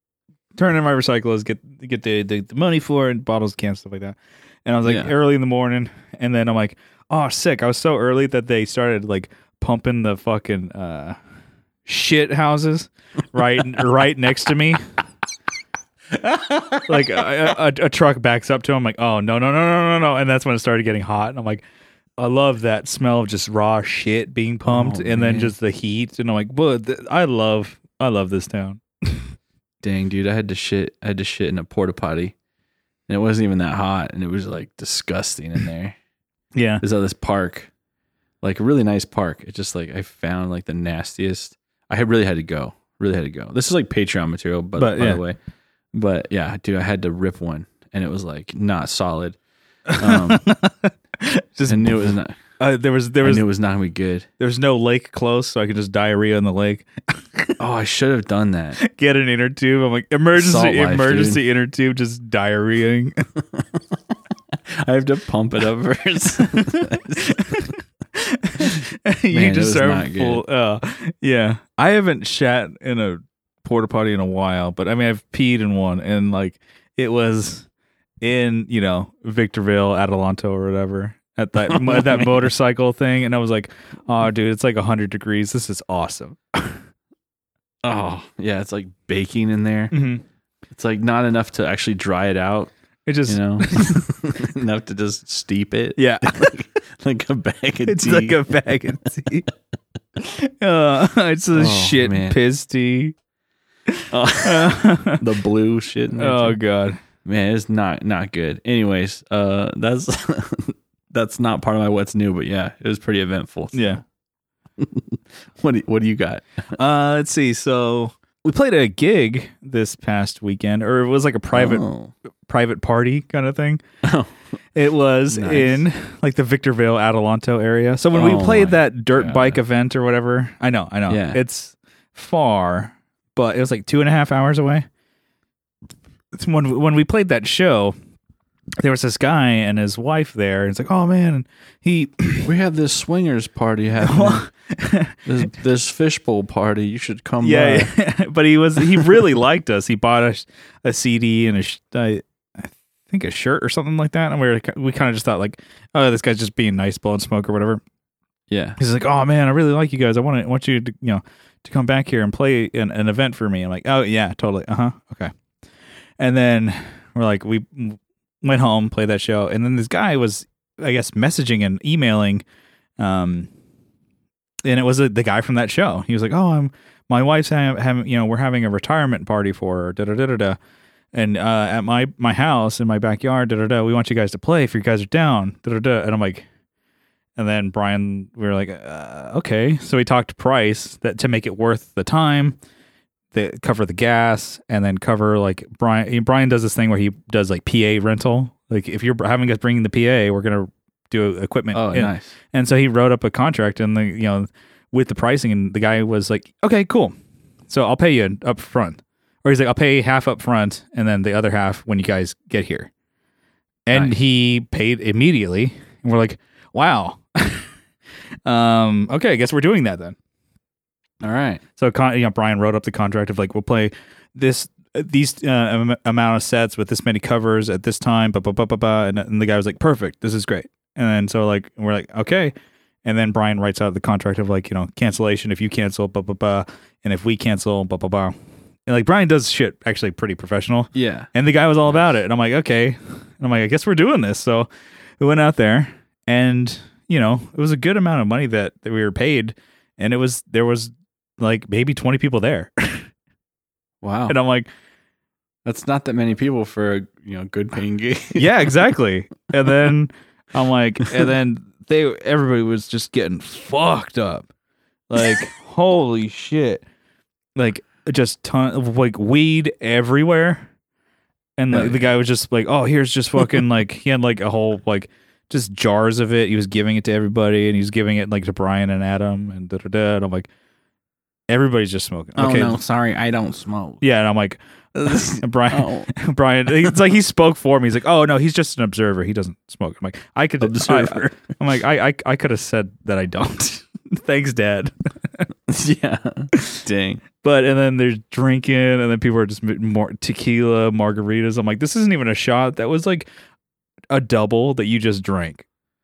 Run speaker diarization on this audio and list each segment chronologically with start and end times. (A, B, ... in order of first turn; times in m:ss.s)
0:00.6-0:11.2 A
0:04.8-0:05.1 B
0:11.8-0:14.8 A
0:16.2-0:16.8 B
0:16.8-0:21.6 A
0:22.2-0:29.3 A
0:24.7-0:25.5 B
0:29.8-0:32.3 B
0:33.1-0:36.0 B
0:36.5-0:36.8 A
0:36.8-0:37.7 B
0:38.4-0:45.4 B
0:44.8-0:45.2 A
0:45.9-0:49.4 B
0:49.9-0:53.4 A
0:50.0-0:50.4 B
0:51.7-0:52.3 B
0:53.2-0:54.3 B
0:54.4-0:57.5 A
0:57.6-0:58.8 B
0:58.8-1:03.2 A
1:00.3-1:01.4 B
1:04.5-1:07.4 B
1:06.5-1:17.7 A
1:09.3-1:10.4 B
1:18.2-1:26.8 A
1:21.7-1:22.5 B
1:27.8-1:29.9 B
1:29.9-1:30.2 A
1:30.7-1:32.7 B
1:33.0-1:34.0 A
1:33.3-1:38.4 B
1:36.0-1:36.5 A
1:37.8-1:39.5 A
1:40.2-1:43.1 A
1:41.5-1:42.4 B
1:43.9-1:45.2 A
1:44.1-1:46.6 B
1:46.1-1:47.0 A
1:47.2-1:54.0 B
1:53.7-1:54.0 A
1:54.8-1:56.7 B
1:56.7-2:01.8 A
2:01.5-2:02.1 B
2:02.5-2:03.8 A
2:04.0-2:04.3 B
2:04.7-2:14.8 A
2:05.3-2:05.8 B
2:08.1-2:09.6 B
2:11.1-2:11.4 B
2:16.3-2:17.9 A
2:18.8-2:22.5 A
2:22.4-2:24.4 B
2:24.0-2:25.2 A
2:25.2-2:27.9 B
2:27.4-2:37.8 A
2:28.9-2:29.2 B
2:38.5-2:38.8 B
2:38.8-2:45.3 A
2:46.2-2:52.4 A
2:53.0-2:53.5 A
2:54.6-3:00.6 A
3:01.1-3:06.4 A
3:07.4-3:12.6 A
3:13.3-3:27.1 A
3:21.7-3:22.3 B
3:27.7-3:32.9 A
3:33.8-3:37.7 A
3:38.4-3:40.2 A
3:41.2-3:41.6 B
3:41.8-3:52.5 A
3:53.0-3:58.3 A
3:58.9-4:04.7 A
4:00.9-4:01.3 B
4:05.2-4:13.1 A
4:14.0-4:14.4 B
4:14.3-4:14.7 A
4:15.6-4:18.5 B
4:18.3-4:24.5 A
4:25.1-4:26.8 A
4:27.6-4:30.6 A
4:31.6-4:40.5 A
4:31.7-4:32.0 B
4:41.5-4:42.8 A
4:42.4-4:44.0 B
4:44.0-4:55.4 A
4:45.0-4:46.1 B
4:50.6-4:51.4 B
4:55.7-4:57.2 B
4:56.5-4:56.8 A
4:57.4-5:03.3 A
5:04.1-5:05.6 A